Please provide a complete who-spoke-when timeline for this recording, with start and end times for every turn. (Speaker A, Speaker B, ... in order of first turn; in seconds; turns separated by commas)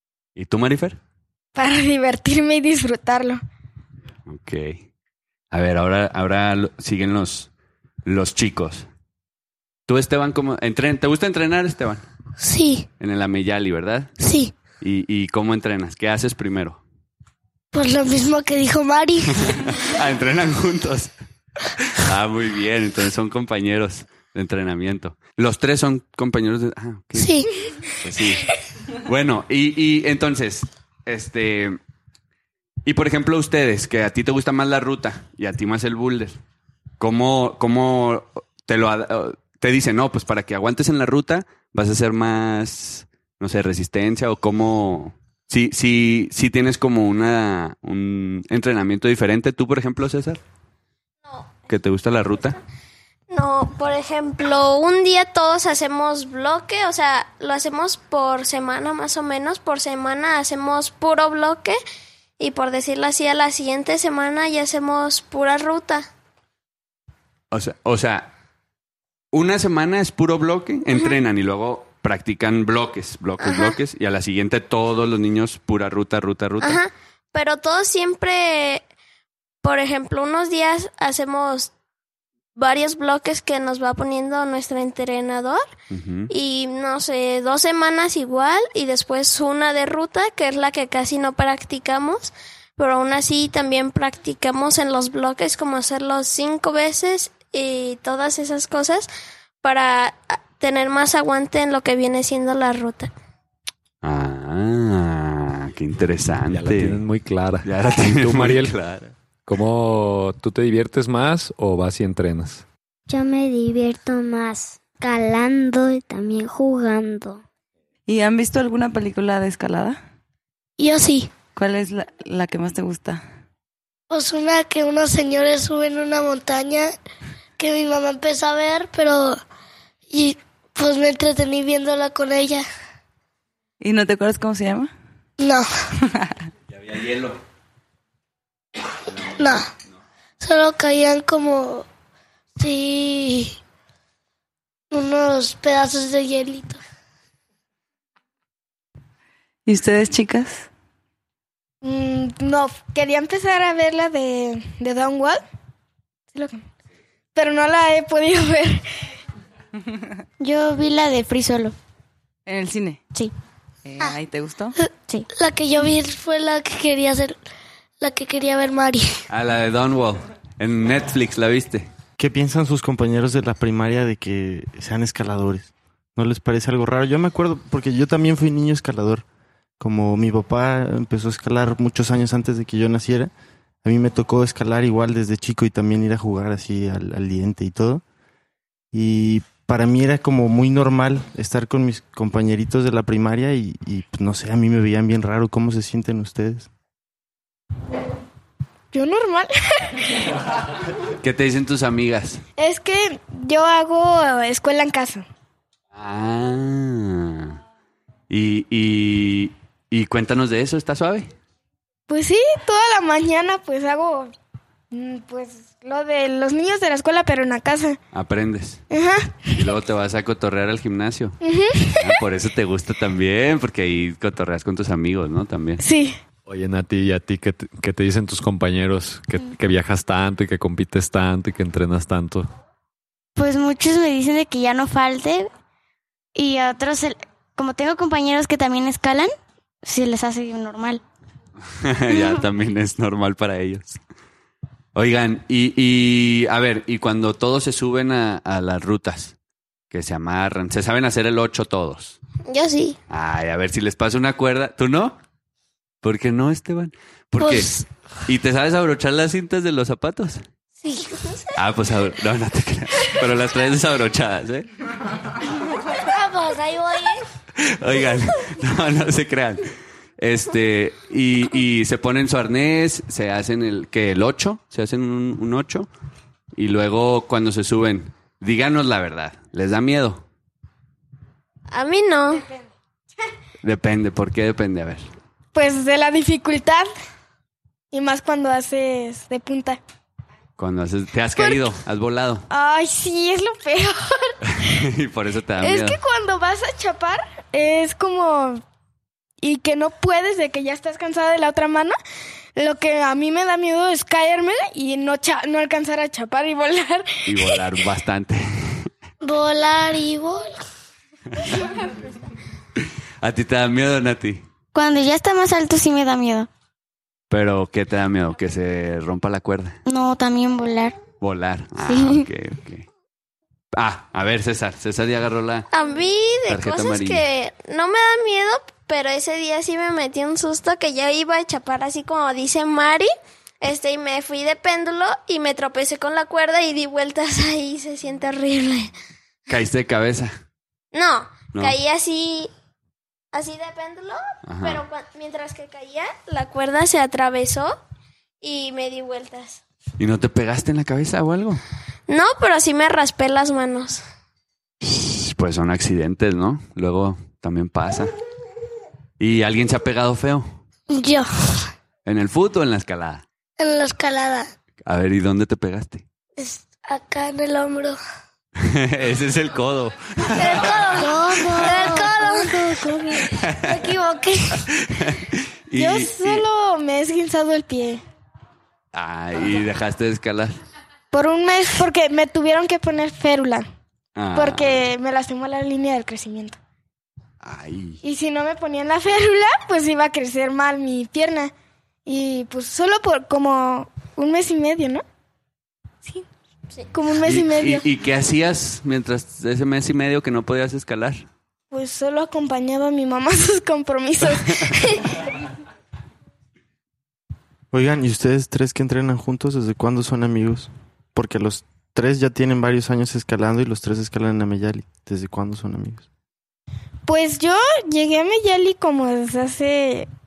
Speaker A: 0.4-1.0, Speaker B: 1.6-3.4, Speaker A: 4.3-4.9, Speaker A: 5.5-7.5, Speaker A: 8.1-8.9, Speaker A: 9.9-12.1, Speaker C: 12.4-12.9, Speaker A: 13.0-14.1, Speaker C: 14.2-14.5, Speaker A: 14.8-16.8, Speaker C: 17.7-19.5, Speaker A: 19.5-21.1, Speaker A: 21.9-27.4, Speaker C: 27.2-27.5, Speaker A: 27.9-28.5, Speaker A: 29.1-31.8, Speaker A: 32.9-36.4, Speaker A: 37.0-50.4, Speaker D: 51.2-51.5, Speaker A: 51.7-52.6, Speaker D: 53.3-61.8, Speaker D: 62.4-66.1, Speaker A: 67.5-68.3, Speaker A: 69.3-76.8, Speaker D: 73.4-73.8, Speaker D: 76.6-78.8, Speaker D: 79.6-81.7, Speaker D: 82.6-85.7, Speaker A: 85.9-86.3, Speaker D: 86.3-99.1, Speaker D: 99.6-103.1, Speaker A: 104.0-107.0, Speaker E: 106.5-108.7, Speaker A: 107.7-109.1, Speaker E: 109.5-112.6, Speaker F: 113.1-117.4, Speaker G: 118.1-120.0, Speaker C: 120.8-121.3, Speaker G: 121.5-123.2, Speaker C: 124.1-126.9, Speaker C: 127.6-129.4, Speaker C: 130.1-132.7, Speaker G: 133.8-134.9, Speaker C: 135.4-135.7, Speaker G: 136.1-136.3, Speaker A: 136.7-137.4, Speaker A: 139.1-139.4, Speaker C: 139.3-139.7, Speaker C: 140.4-141.9, Speaker C: 142.6-143.6, Speaker C: 144.9-146.8, Speaker G: 149.7-150.7, Speaker B: 151.8-155.4, Speaker B: 156.3-156.6, Speaker B: 157.3-158.8, Speaker H: 160.4-161.8, Speaker G: 162.5-163.0, Speaker G: 163.8-164.8, Speaker C: 164.8-167.4, Speaker C: 168.0-169.2, Speaker A: 169.3-171.9, Speaker I: 172.2-179.2, Speaker I: 179.8-183.3, Speaker I: 183.8-188.0, Speaker I: 188.9-196.7, Speaker B: 198.9-200.1, Speaker A: 201.2-202.4, Speaker B: 202.6-205.3, Speaker A: 205.9-207.6, Speaker A: 208.3-211.3, Speaker B: 212.1-214.3, Speaker B: 214.9-218.0, Speaker A: 218.1-218.8, Speaker B: 218.9-219.6, Speaker A: 219.5-221.4, Speaker B: 221.4-222.2, Speaker A: 222.0-225.8, Speaker B: 225.8-226.2, Speaker E: 226.5-232.5, Speaker H: 233.4-235.5, Speaker H: 236.3-239.3, Speaker H: 239.8-241.0, Speaker A: 241.8-244.0, Speaker A: 244.9-249.3, Speaker A: 249.9-252.2, Speaker D: 252.5-253.0, Speaker A: 253.1-255.2, Speaker A: 256.0-257.7, Speaker C: 257.4-257.9, Speaker A: 258.3-260.4, Speaker C: 260.8-261.2, Speaker A: 261.6-264.7, Speaker C: 266.0-267.2, Speaker A: 267.6-275.9, Speaker A: 276.6-280.2, Speaker D: 281.7-282.5, Speaker A: 283.6-285.1, Speaker B: 285.5-286.9, Speaker B: 287.9-289.8, Speaker A: 290.6-292.5, Speaker B: 292.5-294.7, Speaker A: 294.6-296.0, Speaker B: 295.6-298.6, Speaker B: 299.4-302.0, Speaker B: 302.6-307.6, Speaker A: 307.3-308.9, Speaker C: 309.2-310.6, Speaker A: 313.2-314.4, Speaker H: 314.7-316.5, Speaker A: 317.3-319.8, Speaker H: 319.9-321.0, Speaker A: 321.2-322.9, Speaker H: 321.9-322.3, Speaker A: 323.8-325.7, Speaker D: 325.7-333.1, Speaker A: 326.5-327.2, Speaker D: 333.6-338.9, Speaker A: 339.5-340.3, Speaker D: 340.9-342.5, Speaker D: 343.3-347.8, Speaker A: 344.5-344.8, Speaker D: 348.4-349.6, Speaker A: 350.0-351.6, Speaker D: 352.1-354.0, Speaker A: 354.9-358.1, Speaker A: 359.2-360.6, Speaker C: 360.9-361.7, Speaker A: 362.1-363.2, Speaker C: 363.6-364.5, Speaker A: 364.8-366.1, Speaker C: 366.4-368.0, Speaker A: 368.6-370.8, Speaker D: 370.5-372.1, Speaker C: 370.7-374.7, Speaker A: 371.5-371.8, Speaker B: 371.9-373.3, Speaker A: 373.3-373.8, Speaker A: 374.8-376.4, Speaker B: 375.8-378.0, Speaker A: 378.9-380.6, Speaker B: 381.1-383.7, Speaker A: 384.2-384.9, Speaker B: 384.4-386.6, Speaker A: 387.4-388.0, Speaker B: 388.0-391.5, Speaker B: 392.1-395.0, Speaker B: 396.9-397.9, Speaker A: 397.2-401.3, Speaker B: 401.7-405.0, Speaker I: 407.7-416.1, Speaker B: 417.1-420.1